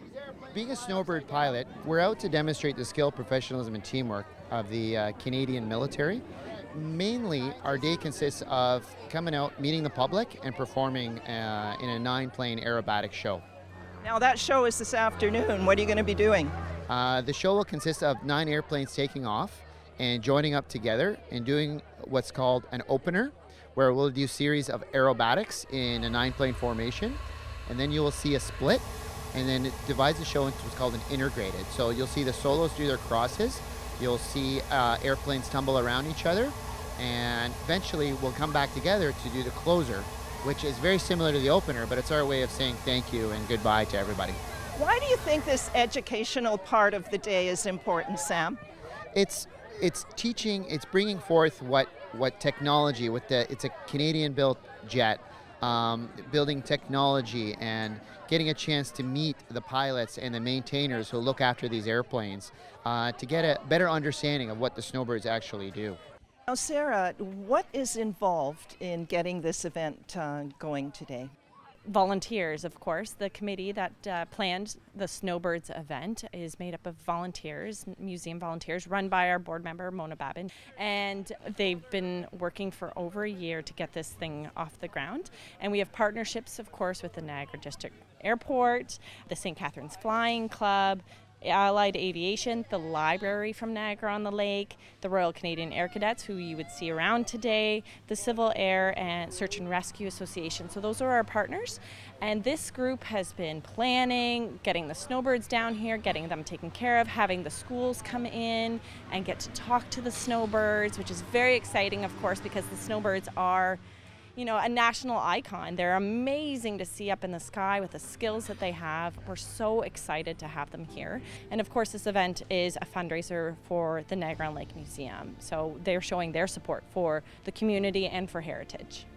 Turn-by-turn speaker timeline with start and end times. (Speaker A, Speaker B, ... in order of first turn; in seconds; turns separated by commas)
Speaker A: 0.5-13.4, Speaker B: 14.0-16.5, Speaker A: 16.9-44.4, Speaker B: 44.8-48.6, Speaker A: 49.1-66.0, Speaker B: 66.5-71.3, Speaker C: 71.8-113.8, Speaker C: 114.3-129.0